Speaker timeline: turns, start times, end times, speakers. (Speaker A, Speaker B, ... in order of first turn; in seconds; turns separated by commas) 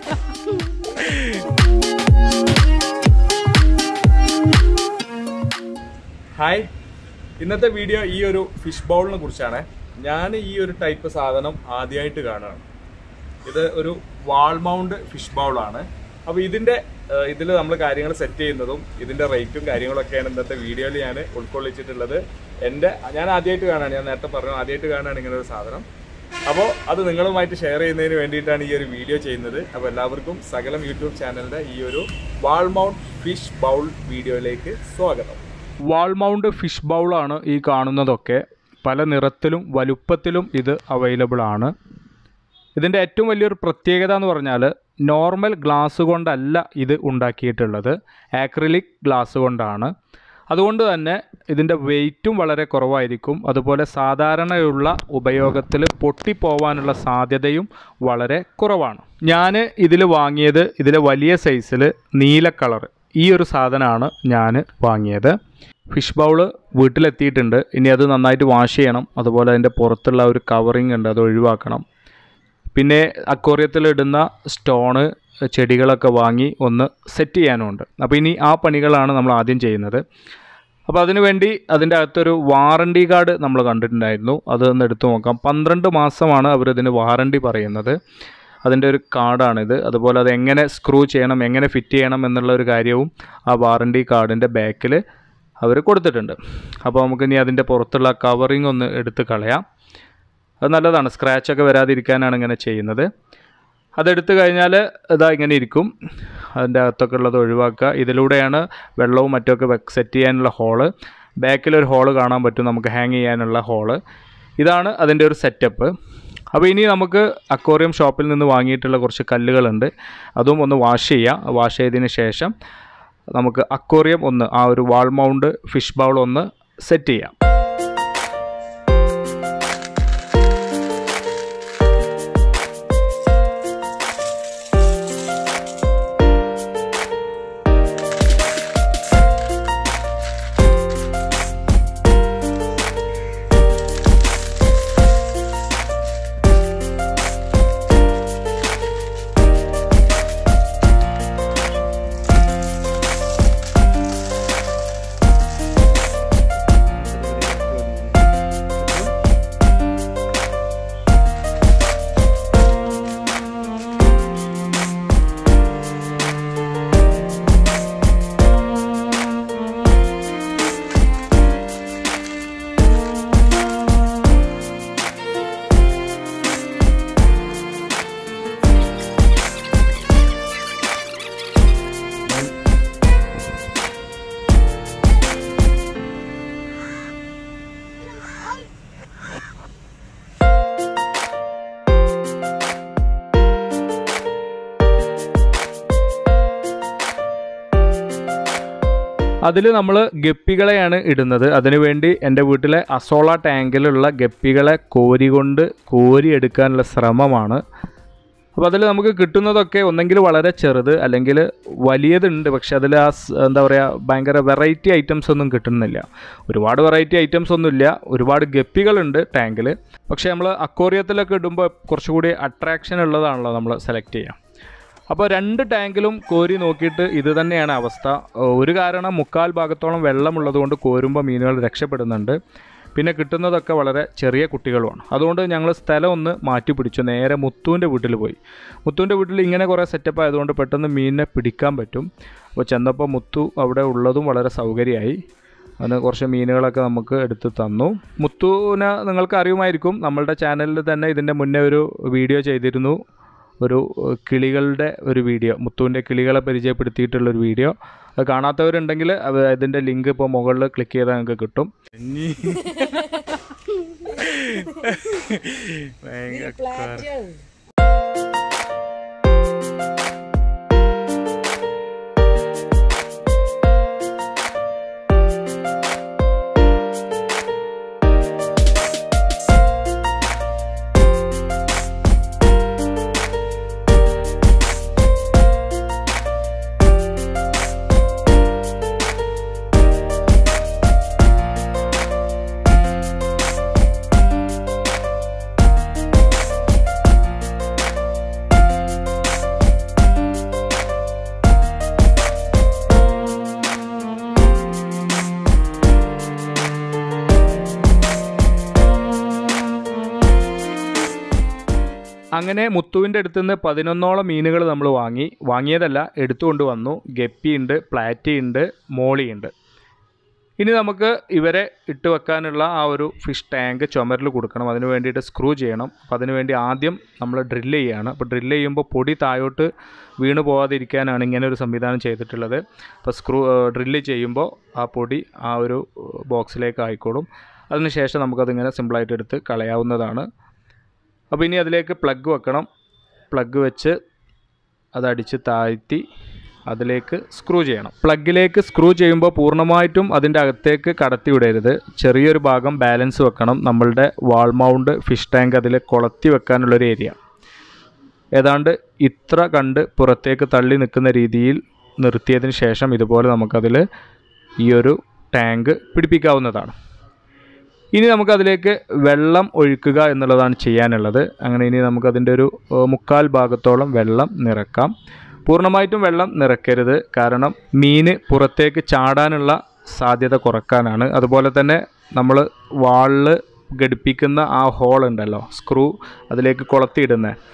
Speaker A: 6.4-6.7, Speaker A: 7.4-12.7, Speaker A: 13.4-25.8, Speaker A: 26.5-41.7, Speaker A: 42.8-49.9, Speaker A: 50.5-65.3, Speaker A: 65.9-71.8, Speaker A: 72.7-80.0, Speaker A: 80.9-88.0, Speaker A: 88.6-95.0, Speaker A: 95.6-99.6, Speaker A: 100.6-103.1, Speaker A: 104.0-105.9, Speaker A: 106.5-110.9, Speaker A: 111.4-114.0, Speaker A: 114.6-115.9, Speaker A: 116.5-122.5, Speaker A: 123.3-127.3, Speaker A: 157.2-158.1, Speaker A: 199.4-207.6, Speaker A: 208.6-224.4, Speaker A: 225.1-232.3, Speaker A: 232.9-245.2, Speaker A: 245.8-253.0, Speaker A: 253.6-262.9, Speaker A: 264.0-267.3, Speaker A: 312.4-319.5, Speaker A: 320.6-329.7, Speaker A: 330.2-340.2, Speaker A: 341.3-342.7, Speaker A: 343.3-343.9, Speaker A: 344.9-346.0, Speaker A: 346.7-357.2, Speaker A: 358.4-363.8, Speaker A: 364.6-366.7, Speaker A: 367.9-374.9, Speaker A: 375.4-387.3